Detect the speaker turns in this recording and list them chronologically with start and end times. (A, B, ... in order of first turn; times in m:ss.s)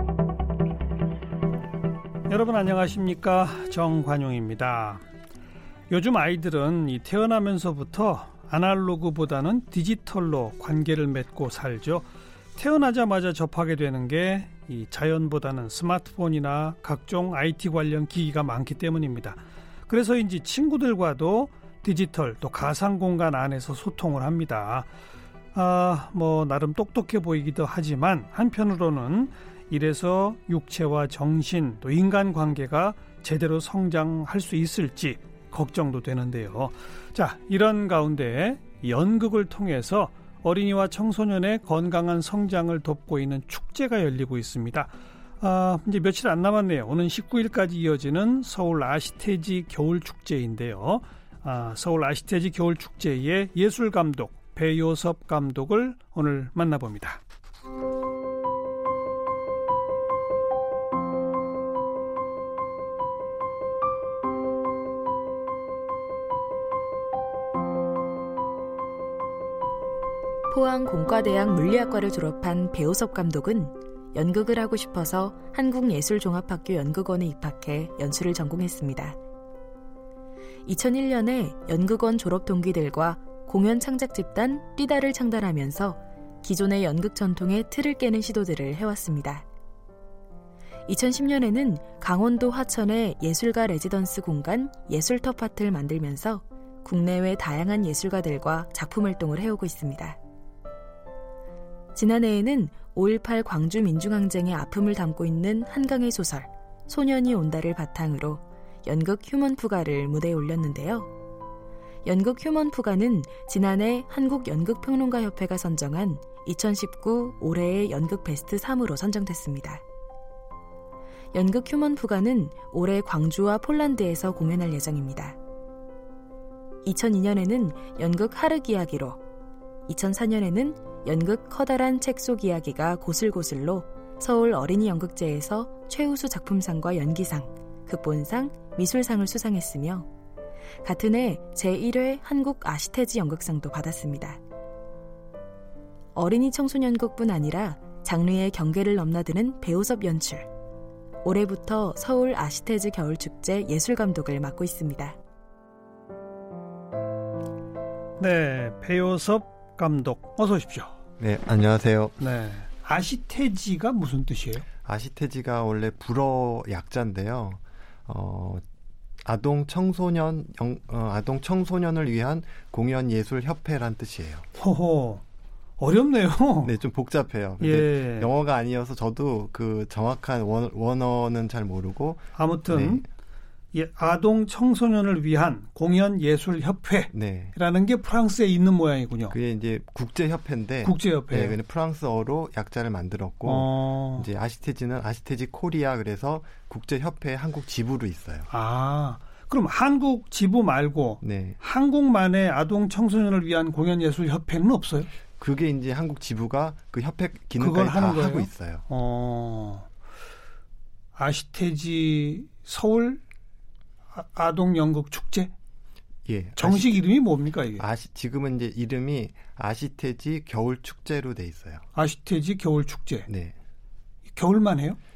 0:02.3-0:05.0 A
0:05.9-0:24.9 A
0:25.5-0:57.2 A
1:10.5-1:19.2 B
1:20.6-1:29.4 B
1:30.9-1:40.2 B
1:41.9-1:51.1 B
1:52.0-1:59.8 B
2:01.3-2:05.4 B
2:06.8-2:09.2 B
2:09.9-2:20.1 B
2:20.8-2:24.4 B
2:26.1-2:30.5 B
2:31.2-2:35.2 B
2:38.2-2:41.0 A
2:41.2-2:42.1 C
2:42.2-2:44.6 A
2:44.8-2:48.6 C
2:49.2-2:54.4 C
2:54.6-2:55.2 A
2:55.8-2:56.7 A
2:56.6-3:03.0 C
2:57.6-2:58.3 A
3:02.4-3:03.0 A
3:03.7-3:09.4 A
3:07.1-3:07.6 C
3:09.3-3:18.5 C
3:10.8-3:11.6 A
3:13.4-3:14.3 A
3:18.5-3:25.1 A
3:21.2-3:21.6 C
3:25.4-3:28.8 C
3:27.6-3:29.9 A
3:31.1-3:33.2 A
3:34.1-3:35.5 A
3:36.2-3:37.0 C
3:36.6-3:37.8 A
3:37.8-3:41.8 C
3:41.9-3:43.3 A
3:43.3-3:43.6 C
3:44.3-3:45.0 A